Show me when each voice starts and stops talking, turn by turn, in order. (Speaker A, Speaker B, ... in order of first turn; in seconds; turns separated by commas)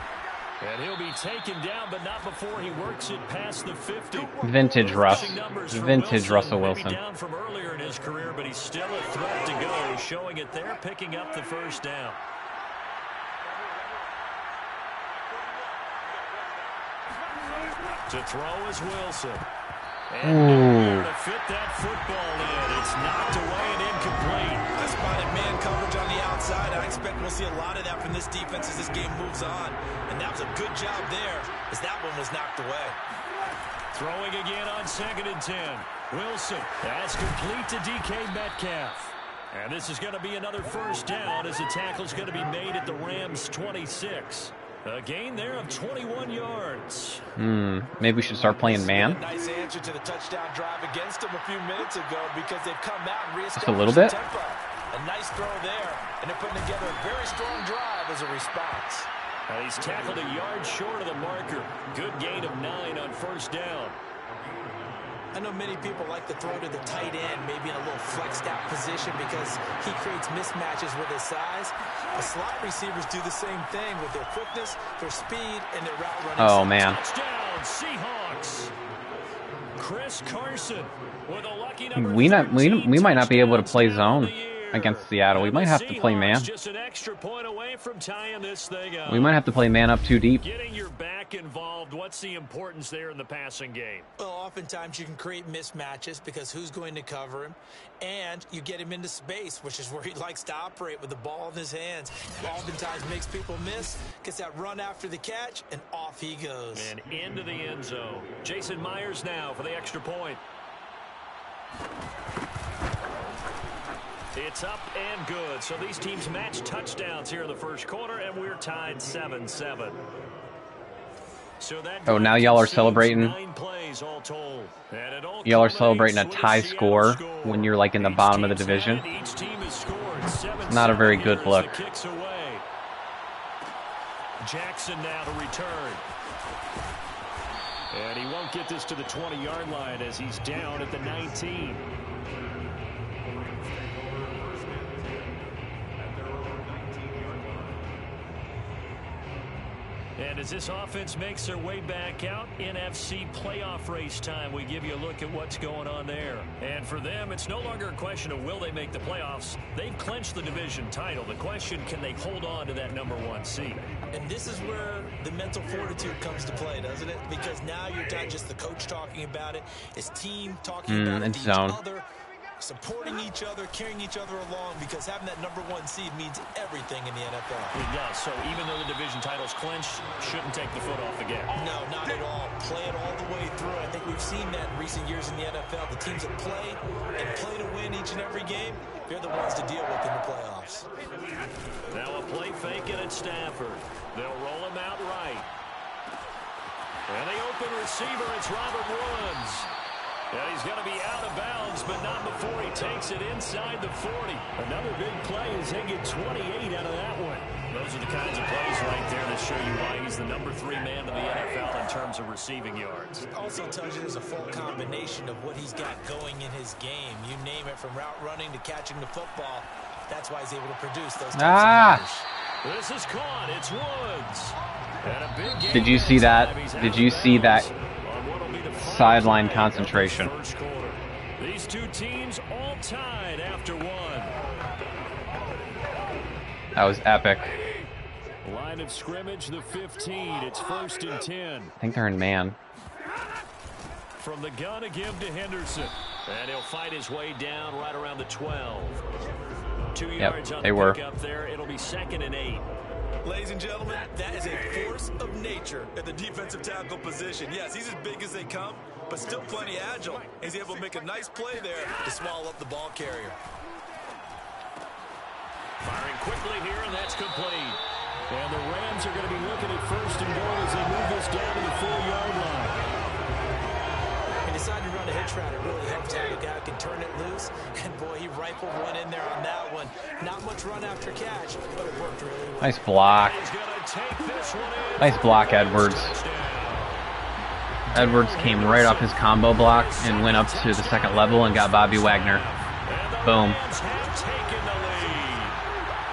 Speaker A: 0.6-12.2, Speaker B: 4.4-7.0, Speaker A: 18.1-19.4, Speaker A: 20.1-24.7, Speaker B: 20.2-21.1, Speaker C: 24.8-33.0, Speaker A: 33.9-47.2, Speaker B: 47.4-49.2, Speaker C: 48.6-59.1, Speaker B: 53.6-54.2, Speaker A: 59.5-64.0, Speaker C: 65.3-76.8, Speaker B: 76.4-77.0, Speaker A: 76.7-78.7, Speaker A: 79.8-89.4, Speaker B: 82.0-86.5, Speaker B: 89.1-90.5, Speaker A: 90.4-94.1, Speaker C: 94.2-106.9, Speaker A: 106.7-110.4, Speaker A: 114.3-120.0, Speaker A: 121.6-132.6, Speaker B: 122.1-123.4, Speaker B: 125.5-129.1, Speaker B: 130.7-131.8, Speaker A: 134.4-136.0, Speaker A: 137.9-141.9, Speaker A: 146.5-147.5, Speaker A: 150.2-163.8, Speaker C: 164.1-172.1, Speaker B: 170.9-171.8, Speaker C: 172.6-177.8, Speaker A: 177.8-181.5, Speaker C: 181.5-190.9, Speaker A: 191.9-195.5, Speaker A: 197.1-199.7, Speaker A: 200.3-213.2, Speaker C: 213.3-222.3, Speaker B: 221.3-222.0, Speaker A: 222.6-234.3, Speaker B: 225.7-227.7, Speaker B: 228.8-230.3, Speaker B: 236.8-237.5, Speaker A: 238.4-241.7, Speaker B: 241.8-242.6, Speaker A: 244.2-249.0, Speaker A: 249.9-252.7, Speaker B: 250.2-251.0, Speaker C: 253.2-263.4, Speaker A: 265.8-272.8, Speaker C: 274.5-282.8, Speaker B: 282.6-283.4, Speaker A: 283.1-287.1, Speaker B: 285.0-286.2, Speaker A: 287.9-295.6, Speaker B: 287.9-292.5, Speaker B: 293.2-293.6